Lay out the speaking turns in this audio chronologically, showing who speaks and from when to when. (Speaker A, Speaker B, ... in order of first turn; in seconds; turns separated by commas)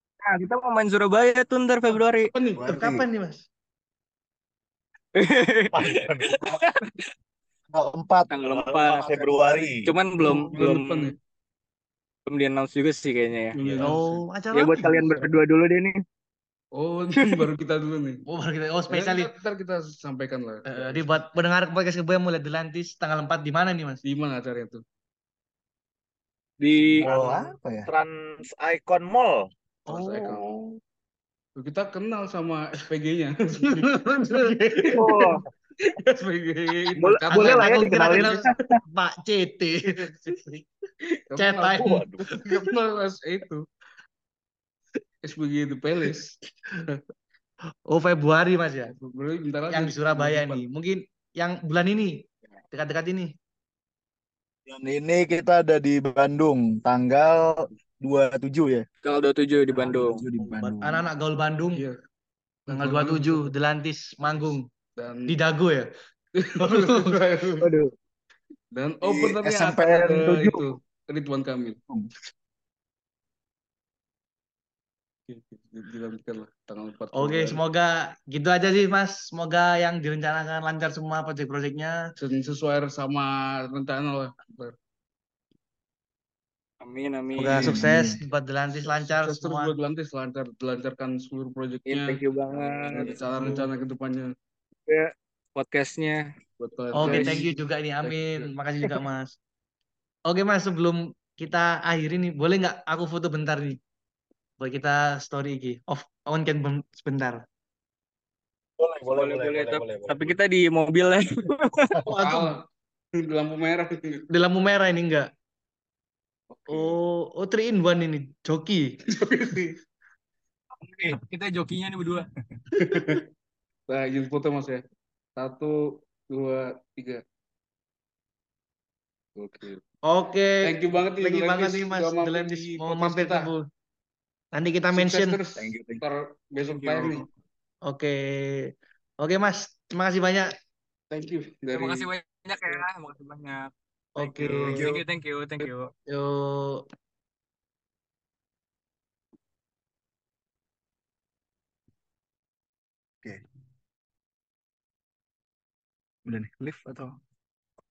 Speaker A: 0.2-2.3, Speaker B: 2.3-2.9, Speaker C: 2.6-3.1, Speaker D: 2.7-3.5, Speaker A: 5.2-6.9, Speaker C: 5.8-6.5, Speaker E: 5.9-6.3, Speaker C: 7.7-8.3, Speaker A: 8.3-9.2, Speaker E: 8.5-9.9, Speaker C: 8.9-9.7, Speaker A: 9.8-11.1, Speaker B: 10.2-11.2, Speaker D: 10.2-10.5, Speaker A: 12.3-13.6, Speaker B: 13.6-14.2, Speaker D: 13.8-15.1, Speaker A: 14.5-16.0, Speaker B: 16.8-18.2, Speaker D: 18.3-19.3, Speaker B: 18.9-21.2, Speaker D: 20.7-24.0, Speaker B: 24.0-24.8, Speaker A: 26.6-27.1, Speaker D: 27.0-27.5, Speaker C: 27.0-27.9, Speaker E: 27.9-29.5, Speaker B: 29.9-30.8, Speaker D: 29.9-30.4, Speaker B: 31.6-35.2, Speaker D: 33.6-35.0, Speaker A: 35.0-35.4, Speaker B: 35.8-38.4, Speaker A: 37.0-38.6, Speaker D: 37.3-39.9, Speaker B: 39.9-40.6, Speaker B: 41.3-43.6, Speaker D: 41.4-42.7, Speaker E: 41.8-42.3, Speaker B: 45.2-46.4, Speaker D: 47.9-48.9, Speaker B: 48.9-50.6, Speaker D: 49.7-52.1, Speaker D: 52.7-53.3, Speaker C: 54.7-58.9, Speaker A: 59.0-60.2, Speaker C: 59.8-61.1, Speaker D: 60.4-61.8, Speaker B: 62.7-63.5, Speaker D: 62.7-64.7, Speaker B: 65.0-65.4, Speaker D: 65.3-65.9, Speaker B: 66.4-67.7, Speaker D: 66.6-67.2, Speaker B: 68.7-71.8, Speaker C: 69.0-70.7, Speaker B: 75.3-77.6, Speaker D: 77.2-82.0, Speaker B: 82.2-84.8, Speaker A: 86.8-87.8, Speaker D: 87.4-89.7, Speaker C: 87.6-88.2, Speaker B: 88.8-94.3, Speaker A: 91.9-93.1, Speaker D: 93.2-93.7, Speaker A: 94.9-96.2, Speaker B: 96.6-98.5, Speaker D: 97.0-99.4, Speaker A: 97.0-97.4, Speaker D: 100.3-103.8, Speaker D: 104.6-107.4, Speaker C: 108.8-110.3, Speaker A: 109.1-111.9, Speaker D: 112.1-112.5, Speaker B: 112.1-112.6, Speaker B: 113.2-114.3, Speaker D: 114.3-115.3, Speaker B: 116.5-117.0, Speaker D: 116.7-119.0, Speaker B: 119.1-119.8, Speaker A: 120.9-122.3, Speaker B: 122.8-123.2, Speaker D: 122.8-123.2, Speaker B: 123.9-124.8, Speaker B: 125.4-125.8, Speaker B: 126.3-127.2, Speaker B: 129.4-129.8, Speaker D: 130.1-133.7, Speaker B: 130.6-133.5, Speaker D: 134.5-135.4, Speaker B: 134.9-137.2, Speaker C: 135.6-136.0, Speaker A: 136.7-137.2, Speaker D: 137.9-140.5, Speaker B: 141.1-142.1, Speaker A: 141.7-145.9, Speaker D: 144.2-144.8, Speaker C: 144.7-145.0, Speaker D: 146.1-146.8, Speaker C: 156.3-157.2